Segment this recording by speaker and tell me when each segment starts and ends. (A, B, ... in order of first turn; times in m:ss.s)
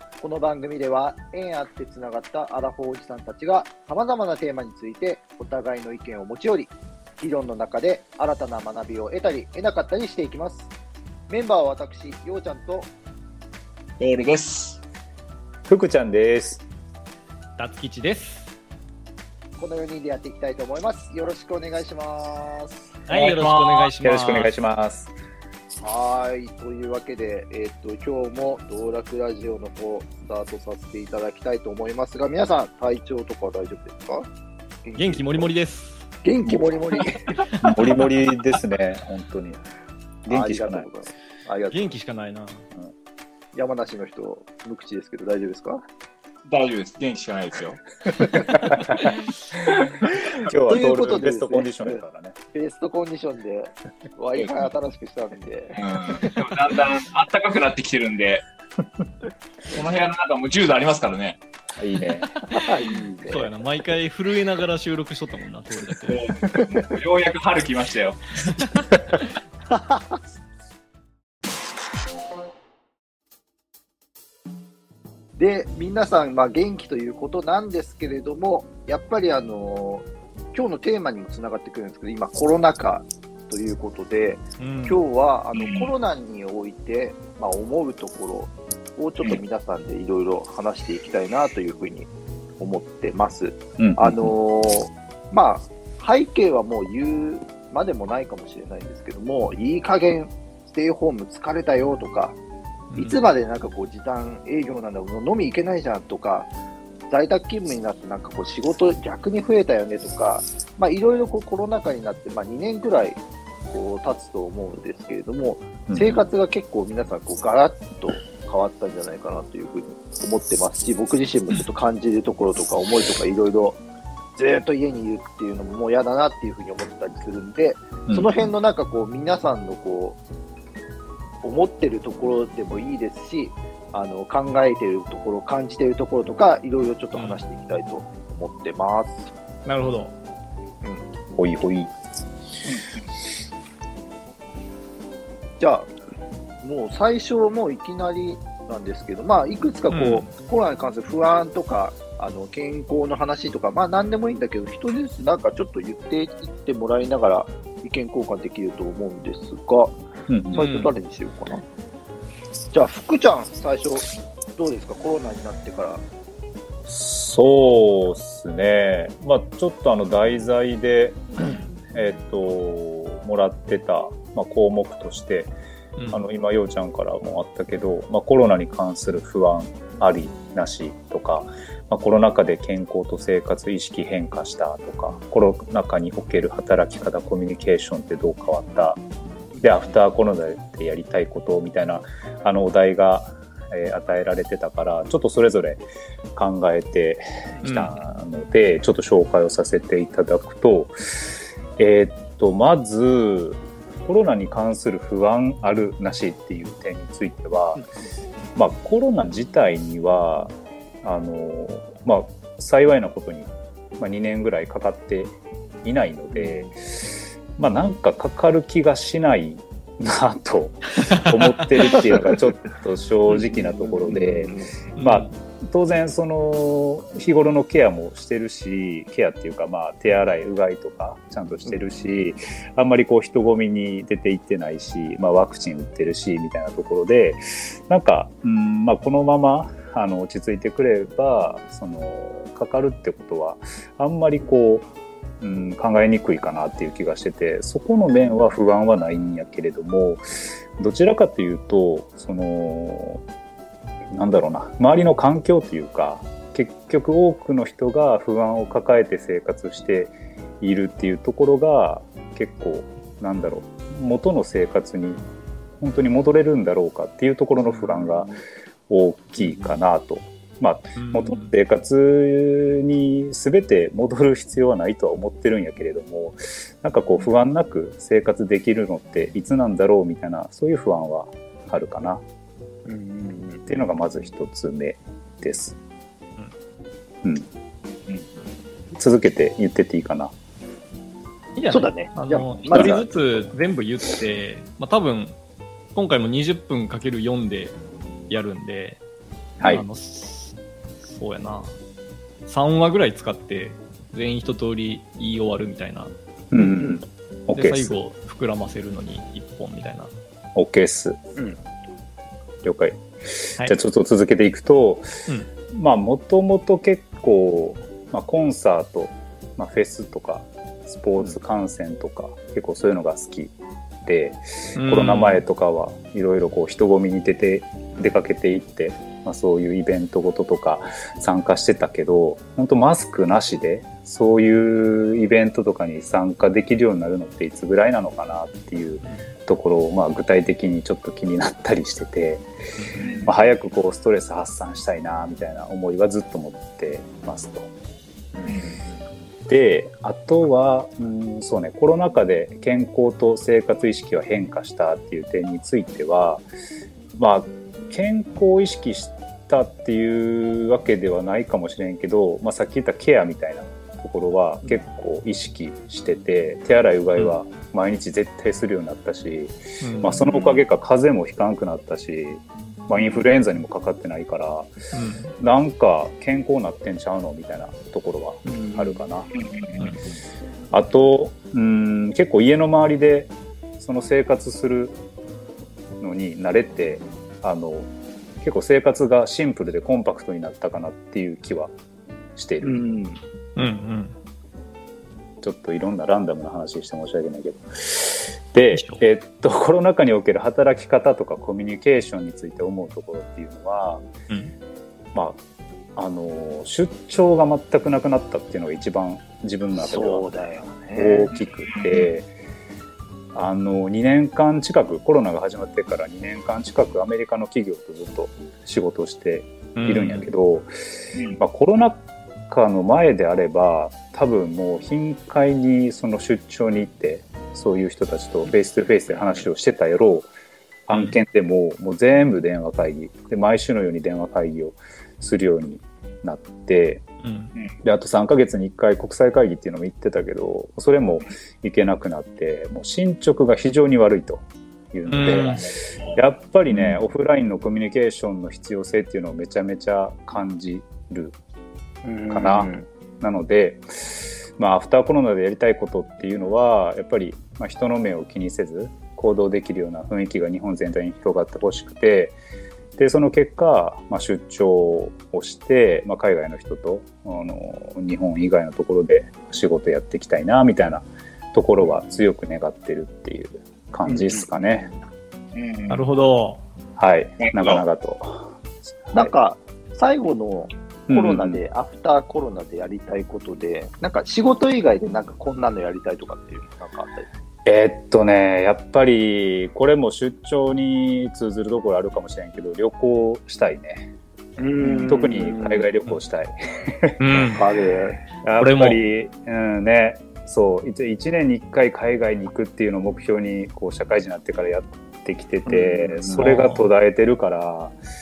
0:00.2-0:10.7 A
0:11.3-0:12.9 A
0:14.0-0:14.8 B
0:15.7-0:16.6 C
0:17.6-0:18.5 D
0:19.6-0:22.8 A
0:23.1-0:24.5 D
0:23.1-0:23.9 B
0:24.0-0:25.1 C
0:25.8-0:34.3 A
0:34.8-0:35.5 A
0:35.0-0:36.0 D
0:36.2-0:37.4 A
0:37.6-0:39.6 C
0:40.3-0:40.9 C
0:40.3-0:41.9 A
0:41.7-0:42.7 D
0:43.6-0:45.8 A
0:46.5-0:49.1 B
0:48.6-0:48.8 C
0:50.4-0:52.4 C
0:50.7-0:52.0 A
0:52.5-0:56.6 A
0:54.4-0:54.7 B
0:55.8-0:58.4 B
0:59.7-1:01.4 B
1:01.8-1:02.3 C
1:02.5-1:03.5 A
1:03.3-1:06.2 D
1:06.1-1:08.5 B
1:08.5-1:08.8 D
1:09.7-1:10.2 A
1:15.4-1:42.4 A
1:24.6-1:25.0 D
1:25.6-1:25.9 B
1:33.8-1:34.3 C
1:42.9-1:43.2 D
1:43.0-1:46.5 A
1:47.1-2:03.8 A
1:55.9-1:56.2 C
2:04.4-2:10.2 A
2:08.1-2:08.5 C
2:11.4-2:19.3 A
2:17.1-2:17.4 D
2:19.7-2:20.1 D
2:20.8-2:21.1 A
2:21.4-2:21.9 C
2:25.6-2:25.9 A
2:26.6-2:41.6 A
2:29.9-2:30.3 D
2:40.3-2:40.6 C
2:40.6-2:41.0 D
2:42.7-2:46.0 A
2:46.9-2:51.2 C
2:51.9-2:55.5 C
2:56.0-2:56.2 D
2:56.1-3:09.0 C
3:09.5-3:10.0 A
3:09.6-3:15.8 C
3:16.4-3:20.9 C
3:17.6-3:18.0 D
3:21.8-3:27.8 C
3:27.8-3:28.1 A
3:28.6-4:04.9 C
3:36.3-3:36.7 A
3:41.9-3:42.4 A
3:43.3-3:44.7 A
3:45.0-3:45.3 D
4:05.4-4:10.2 C
4:10.8-4:13.2 C
4:14.1-4:25.2 C
4:25.8-4:28.4 C
4:27.6-4:28.4 A
4:28.9-4:42.2 C
4:29.4-4:29.8 A
4:31.0-4:31.5 D
4:42.9-4:43.7 A
4:43.7-4:45.8 C
4:49.0-4:50.3 C
4:51.6-4:55.4 D
4:51.7-4:53.1 A
4:52.7-4:53.4 C
4:56.0-4:57.8 D
4:58.3-4:59.0 D
4:59.6-4:59.8 C
4:59.7-5:01.8 D
5:02.5-5:06.1 D
5:06.5-5:07.9 C
5:06.6-5:07.0 A
5:07.5-5:10.1 D
5:10.6-5:11.2 C
5:12.6-5:15.1 C
5:15.7-5:42.5 C
5:24.8-5:25.4 D
5:43.0-5:43.4 A
5:43.2-5:47.7 C
5:48.3-5:49.1 A
5:49.5-5:56.5 C
5:57.2-6:14.7 C
6:09.8-6:10.3 D
6:13.0-6:13.2 A
6:14.9-6:15.3 D
6:15.4-6:19.3 C
6:18.4-6:19.0 A
6:19.4-6:19.7 B
6:20.7-6:25.0 C
6:26.0-6:27.9 C
6:28.4-6:31.7 C
6:32.4-6:32.8 C
6:32.6-6:33.2 A
6:33.6-6:34.2 D
6:35.4-6:44.0 C
6:38.7-6:39.0 D
6:45.1-6:45.4 C
6:46.0-6:52.3 C
6:49.8-6:51.3 A
6:51.7-6:52.0 B
6:53.3-7:10.3 C
6:59.8-7:00.3 D
7:09.1-7:09.5 A
7:10.9-7:17.0 C
7:10.9-7:11.2 D
7:17.2-7:17.5 D
7:17.8-7:31.4 C
7:25.1-7:25.6 D
7:26.7-7:27.0 A
7:32.0-7:32.9 A
7:32.3-7:42.4 C
7:43.0-7:54.9 C
7:54.0-7:54.5 A
7:55.6-7:56.0 B
7:55.9-7:56.6 D
7:57.0-7:58.5 C
7:57.4-7:57.8 B
7:59.1-8:07.3 A
8:01.1-8:01.6 C
8:07.7-8:14.1 C
8:14.6-8:15.9 A
8:14.9-8:17.2 C
8:17.2-8:17.6 D
8:17.5-8:18.2 A
8:18.4-8:28.0 C
8:18.6-8:19.0 D
8:25.7-8:26.5 A
8:26.4-8:26.9 D